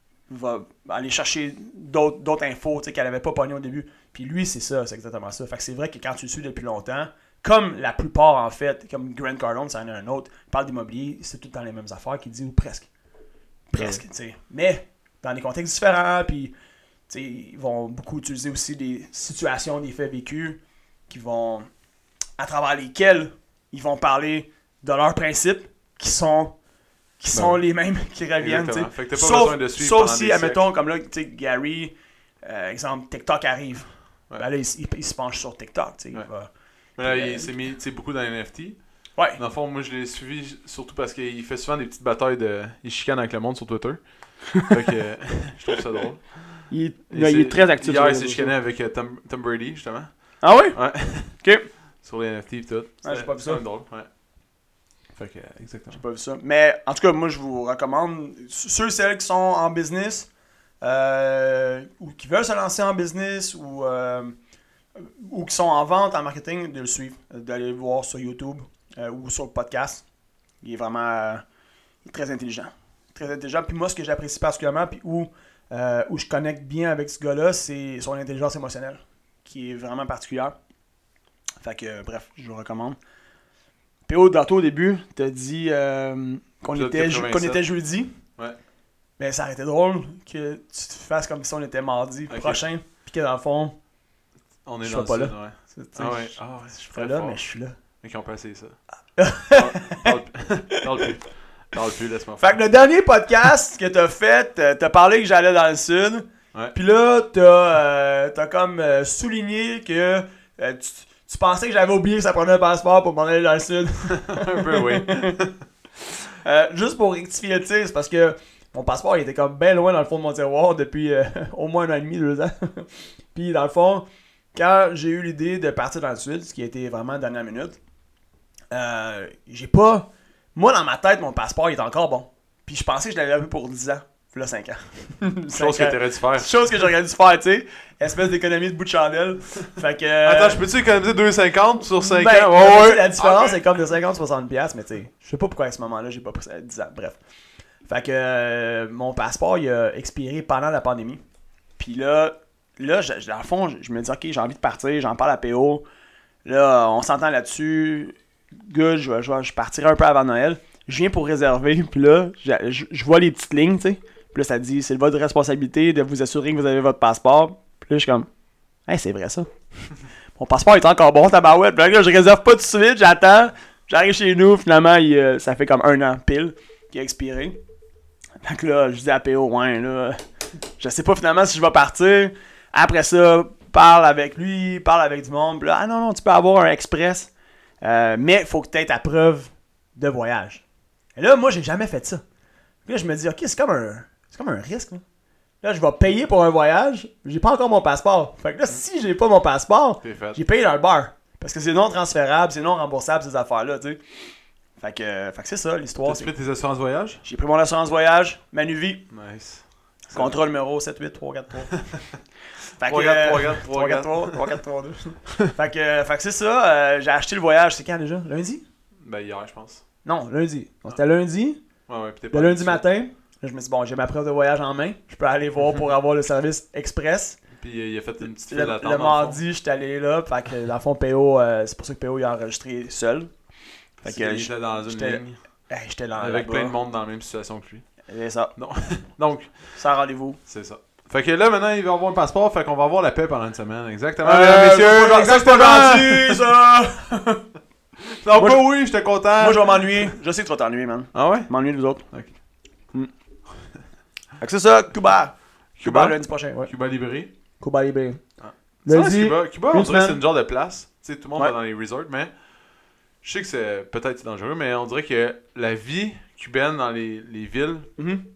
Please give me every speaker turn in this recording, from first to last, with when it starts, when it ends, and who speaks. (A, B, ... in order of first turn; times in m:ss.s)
0:00.3-0:12.9 A
0:13.7-0:16.5 A
0:13.7-0:14.0 B
0:17.1-0:21.7 A
0:22.4-0:26.6 A
0:27.2-0:37.5 A
0:27.3-0:27.6 B
0:28.4-0:30.6 B
0:37.0-0:38.8 B
0:39.4-0:44.0 B
0:44.6-0:51.4 B
0:46.7-0:48.5 A
0:50.4-0:51.7 A
0:52.0-0:54.1 B
0:53.0-0:53.6 A
0:55.1-0:56.0 B
0:55.9-1:00.3 A
1:00.8-1:04.4 A
1:05.0-1:10.0 A
1:10.6-1:11.4 A
1:12.0-1:20.5 A
1:21.6-1:23.0 A
1:24.1-1:28.2 A
1:26.7-1:27.6 B
1:29.2-1:33.8 A
1:32.3-1:32.6 B
1:34.6-1:37.4 B
1:34.8-1:37.8 A
1:38.0-1:38.8 B
1:39.2-1:40.1 A
1:39.5-1:42.6 B
1:40.7-1:41.0 A
1:42.4-1:55.4 A
1:54.2-1:55.6 B
1:56.3-2:07.8 A
2:08.7-2:20.6 A
2:15.5-2:16.9 B
2:20.2-2:23.6 B
2:22.0-2:27.2 A
2:27.8-2:31.2 A
2:31.8-2:35.8 A
2:36.4-2:48.3 A
2:48.9-2:49.5 A
2:50.4-2:57.6 A
2:58.4-3:00.2 A
3:00.8-3:07.3 A
3:07.8-3:10.6 A
3:11.2-3:12.2 A
3:12.8-3:15.0 A
3:15.6-3:24.0 A
3:20.0-3:20.4 B
3:24.8-3:26.3 A
3:26.0-3:27.2 B
3:27.2-3:29.1 A
3:29.1-3:30.4 B
3:30.1-3:31.8 A
3:32.8-3:38.6 A
3:32.8-3:34.6 B
3:39.0-3:39.8 B
3:40.0-3:41.6 A
3:41.9-3:42.8 B
3:42.3-3:47.4 A
3:47.6-3:49.4 B
3:48.2-3:53.3 A
3:54.0-3:55.4 B
3:54.0-3:56.7 A
3:56.2-3:57.8 B
3:58.1-3:58.5 A
3:58.6-3:59.8 B
3:59.7-4:00.4 A
4:00.4-4:06.4 B
4:04.2-4:07.4 A
4:08.0-4:10.2 B
4:08.4-4:08.6 A
4:09.4-4:12.0 A
4:11.1-4:11.5 B
4:12.1-4:12.3 B
4:14.4-4:16.7 A
4:15.8-4:17.3 B
4:17.6-4:18.2 A
4:18.4-4:22.3 B
4:18.8-4:20.2 A
4:23.2-4:27.9 B
4:28.0-4:28.2 A